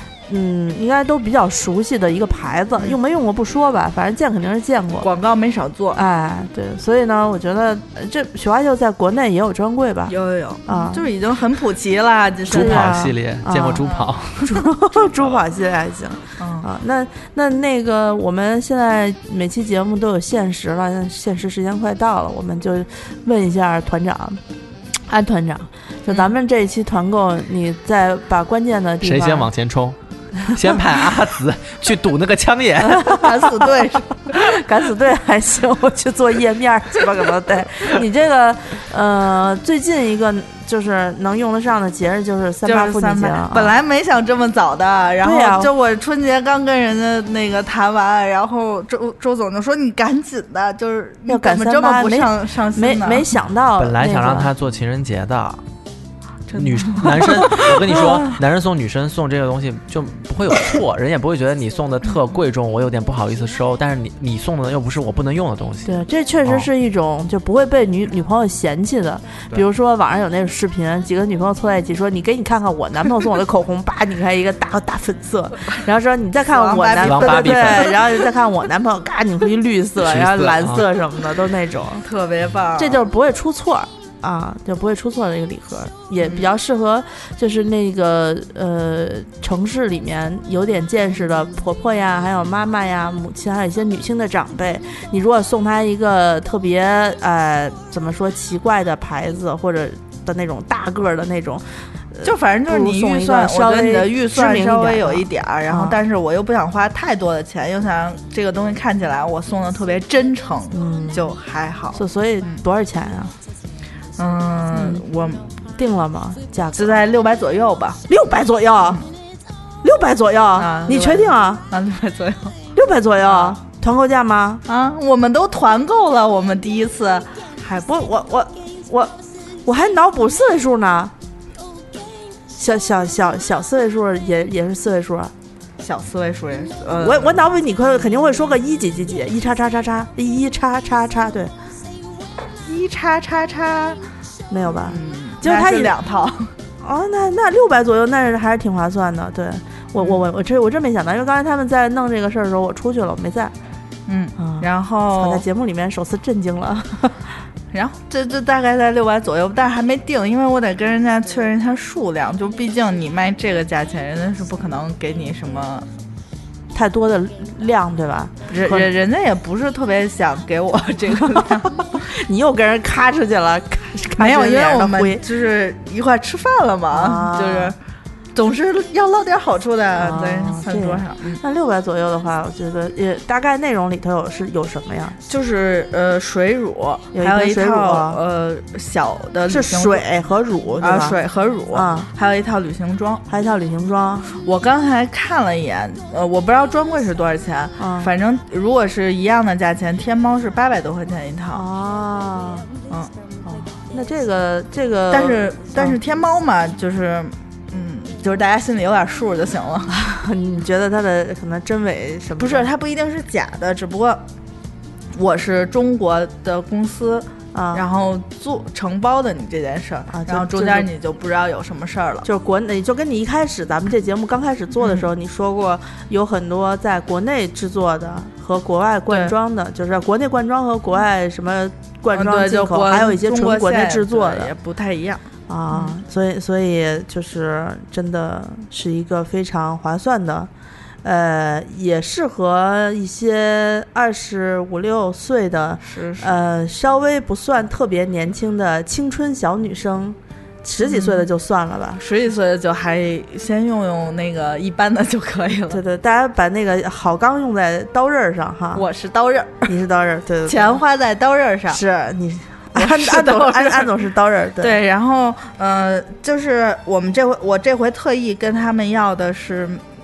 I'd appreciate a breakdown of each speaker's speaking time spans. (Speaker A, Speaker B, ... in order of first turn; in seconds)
Speaker A: 0.3-5.1, 5.9-10.1, 10.7-11.1, 12.5-13.8, 14.4-24.4, 25.1-29.5, 32.9-33.5, 34.3-43.7, 45.2-45.7, 51.3-54.5, 65.8-82.0, 82.8-106.0, 110.7-111.3, 111.9-113.3, 114.7-115.0, 115.8-117.0, 118.1-119.0, 119.8-121.6, 122.7-124.6, 127.8-129.1, 129.6-131.1, 132.5-135.3, 137.0-141.5, 144.5-145.9, 146.8-153.5, 154.4-157.3, 166.7-168.9, 171.2-175.2, 176.9-177.7, 180.0-185.2, 187.1-188.2, 189.5-191.2, 191.7-192.1, 193.3-194.3, 197.8-198.1, 201.5-202.7, 203.4-206.0, 209.9-212.7, 217.5-217.8, 220.1-220.9, 222.2-234.5, 235.5-240.5, 241.0-252.0, 255.7-258.8, 259.6-260.8, 261.7-264.8
Speaker B: 5.0-6.0, 10.1-13.0, 13.8-14.1, 16.4-16.6, 33.0-34.3, 42.6-53.3, 56.5-57.8, 76.5-78.1, 82.0-83.0, 86.2-86.5, 102.2-112.6, 114.2-115.5, 116.8-118.0, 120.6-122.5, 123.2-123.6, 124.7-127.9, 135.8-137.4, 142.6-144.0, 144.8-146.5, 150.0-150.2, 154.1-155.4, 157.7-165.9, 168.5-171.8, 174.2-177.8, 178.3-181.4, 185.3-190.0, 190.8-193.2, 194.3-201.6, 205.1-209.9, 212.4-214.2, 215.1-222.2, 224.8-225.1, 229.1-229.3, 232.1-236.0, 245.8-246.3, 250.8-251.3, 252.0-255.8, 258.7-259.7, 260.5-261.8, 262.7-264.0, 264.6-269.8
Speaker C: 12.5-14.6, 15.1-15.4, 29.0-33.3, 53.8-55.6, 56.5-66.7, 77.0-77.9, 80.0-80.8